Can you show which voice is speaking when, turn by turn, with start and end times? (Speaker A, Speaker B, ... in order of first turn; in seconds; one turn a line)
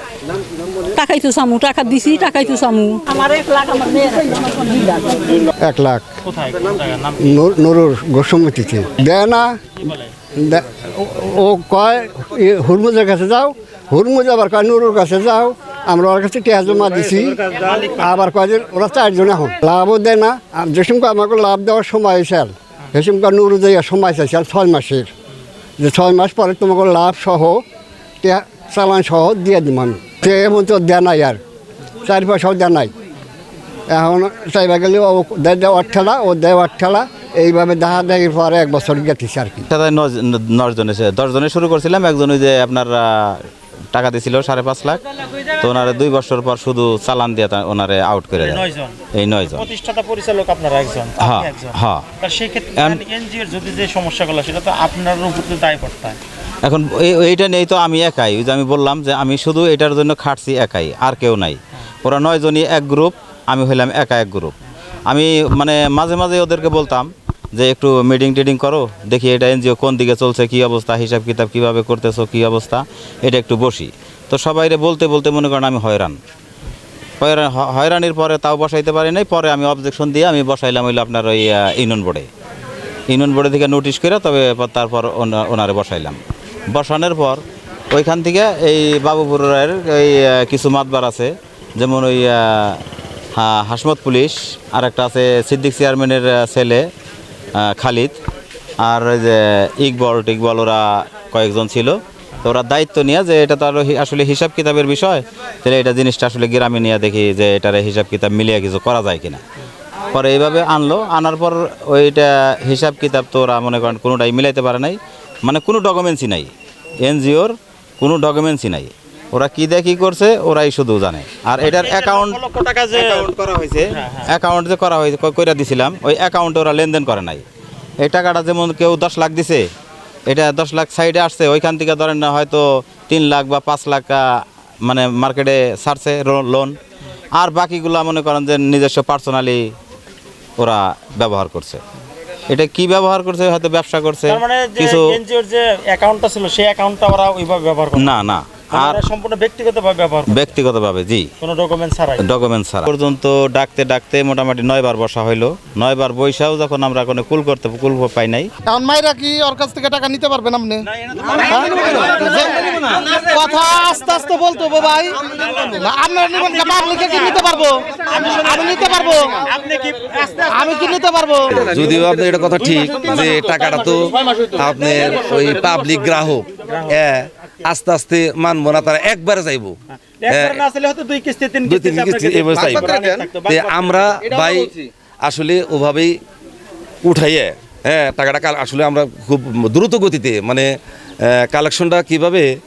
Speaker A: 0.9-5.4
Speaker B: 5.6-6.0
Speaker C: 6.2-7.2
Speaker B: 7.2-9.6
Speaker B: 10.4-25.1
Speaker B: 25.8-27.6
Speaker B: 28.2-31.4
Speaker B: 32.0-32.9
Speaker B: 33.9-39.6
Speaker D: 39.7-45.0
Speaker D: 45.6-49.7
Speaker C: 48.5-49.0
Speaker C: 49.6-56.2
Speaker D: 51.2-52.0
Speaker D: 52.8-53.0
Speaker D: 56.6-64.5
Speaker D: 65.1-76.2
Speaker D: 77.2-82.3
Speaker D: 83.1-86.2
Speaker D: 86.7-92.8
Speaker D: 93.4-96.9
Speaker D: 97.5-98.2
Speaker D: 98.8-109.4
Speaker D: 110.1-122.4
Speaker C: 121.8-123.1
Speaker D: 122.9-127.4
Speaker D: 128.0-129.7
Speaker D: 130.3-136.8
Speaker D: 137.3-139.6
Speaker D: 140.6-141.8
Speaker D: 142.5-145.2
Speaker C: 144.3-148.0
Speaker D: 147.9-149.0
Speaker C: 148.8-150.3
Speaker D: 150.3-151.3
Speaker C: 151.4-152.2
Speaker D: 152.2-158.5
Speaker E: 158.6-169.5
Speaker C: 161.3-162.0
Speaker C: 169.5-170.3
Speaker E: 170.4-172.2
Speaker F: 171.5-180.6
Speaker E: 172.9-173.6
Speaker C: 180.2-182.4
Speaker F: 181.6-186.2
Speaker E: 182.5-183.3
Speaker C: 183.1-184.0
Speaker E: 184.2-184.8
Speaker F: 187.0-190.7
Speaker F: 191.2-192.5